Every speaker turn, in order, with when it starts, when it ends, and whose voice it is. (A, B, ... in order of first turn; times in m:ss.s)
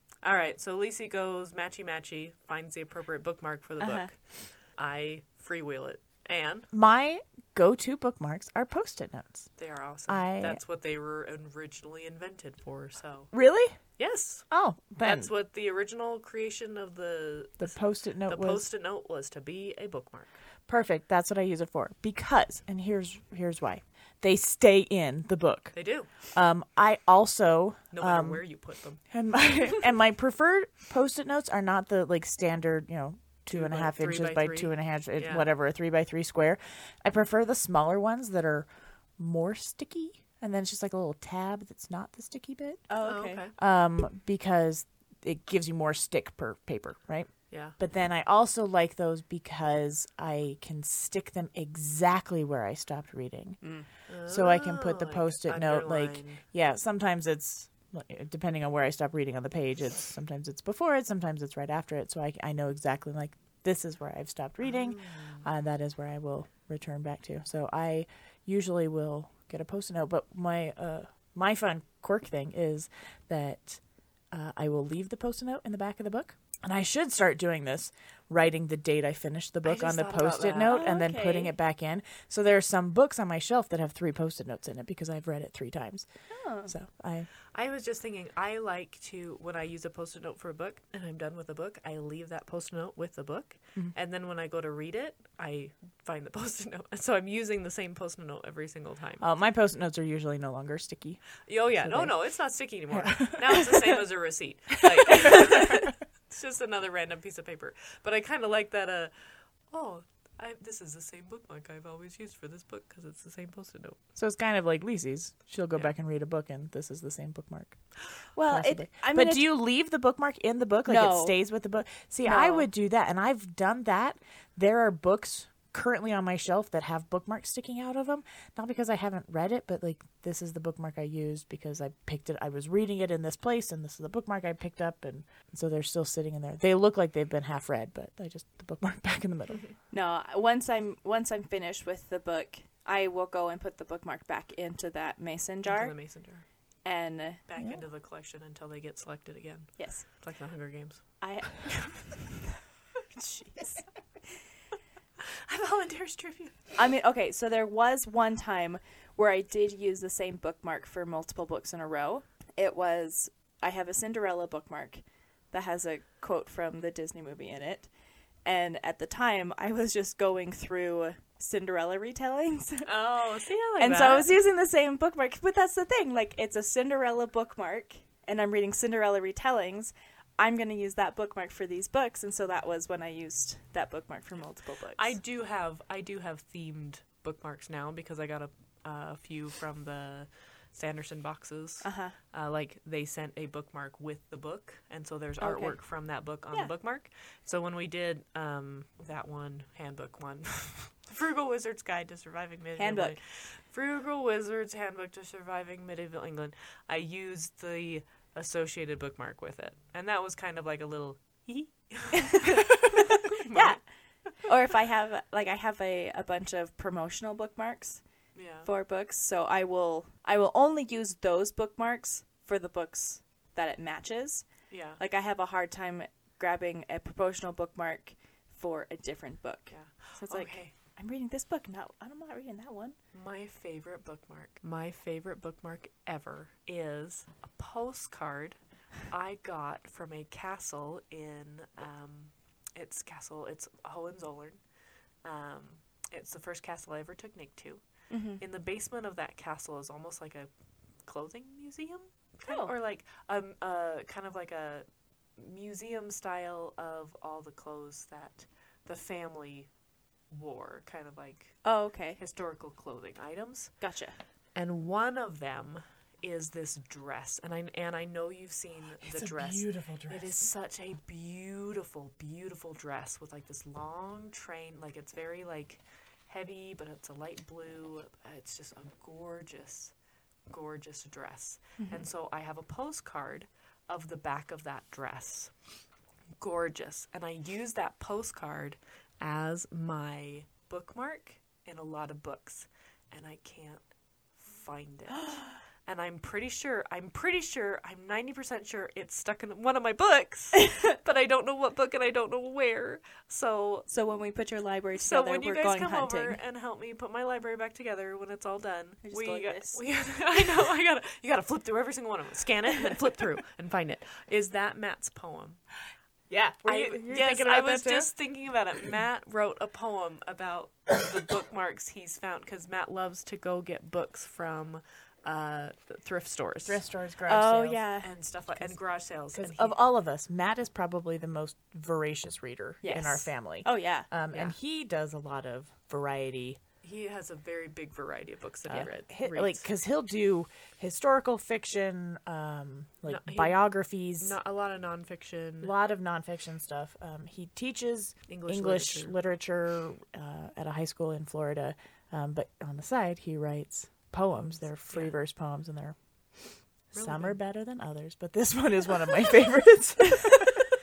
0:00.2-0:06.7 A
0:03.8-0:04.1 B
0:06.7-0:10.6 C
0:09.6-0:13.3 A
0:13.3-0:13.8 C
0:14.0-0:14.5 A
0:14.5-0:15.3 C
0:15.0-0:20.4 A
0:17.6-0:18.7 C
0:20.7-1:26.1 C
0:25.7-0:26.1 A
0:27.9-0:29.5 A
0:33.5-0:35.5 A
0:42.9-0:43.4 B
0:43.0-0:43.6 A
0:47.5-0:47.8 A
0:53.6-0:53.9 B
0:54.1-0:56.4 A
1:04.6-1:05.4 A
1:19.6-1:20.8 A
1:20.7-1:21.5 B
1:26.3-1:26.7 B
1:26.6-1:27.3 C
1:27.5-1:39.3 A
1:39.2-1:42.2 C
1:41.5-1:54.0 A
1:42.9-1:44.0 C
1:54.2-2:19.6 C
1:58.4-1:59.5 B
2:00.9-2:01.4 B
2:02.2-2:02.7 B
2:19.9-2:26.0 B
2:25.6-2:26.4 A
2:26.8-2:27.4 B
2:27.5-2:31.7 A
2:29.8-2:30.1 B
2:31.2-2:32.3 B
2:33.1-2:33.9 B
2:35.3-2:36.7 A
2:36.8-2:47.9 B
2:48.4-2:52.9 B
2:52.8-2:54.3 A
2:53.8-3:05.2 B
3:05.0-3:33.9 A
3:11.8-3:12.2 B
3:15.4-3:15.8 B
3:22.8-3:23.2 B
3:32.4-3:33.0 B
3:33.5-3:38.0 B
3:38.4-3:38.7 A
3:38.6-3:53.0 B
3:44.7-3:45.0 A
3:49.7-3:50.7 A
3:53.1-4:04.6 A
4:05.2-4:10.5 A
4:08.1-4:08.4 B
4:11.0-4:14.8 A
4:12.4-4:12.7 B
4:15.4-4:19.7 A
4:20.3-4:23.9 A
4:21.6-4:22.2 B
4:23.8-4:24.2 B
4:24.6-4:39.9 A
4:29.0-4:30.4 C
4:40.5-4:45.6 A
4:41.8-4:42.1 B
4:46.4-5:03.9 A
5:03.9-5:06.4 B
5:04.9-5:15.6 A
5:09.0-5:09.8 B
5:16.3-5:18.1 C
5:16.6-5:26.8 A
5:26.7-5:27.8 C
5:27.3-5:28.1 B
5:28.0-5:29.8 A
5:29.3-5:36.6 C
5:32.8-5:34.1 B
5:34.3-5:34.6 A
5:36.8-5:39.6 A
5:38.7-5:44.4 C
5:43.1-5:45.7 A
5:45.6-6:00.7 C
5:48.3-5:49.2 A
5:54.9-5:55.2 A
5:56.9-5:57.4 A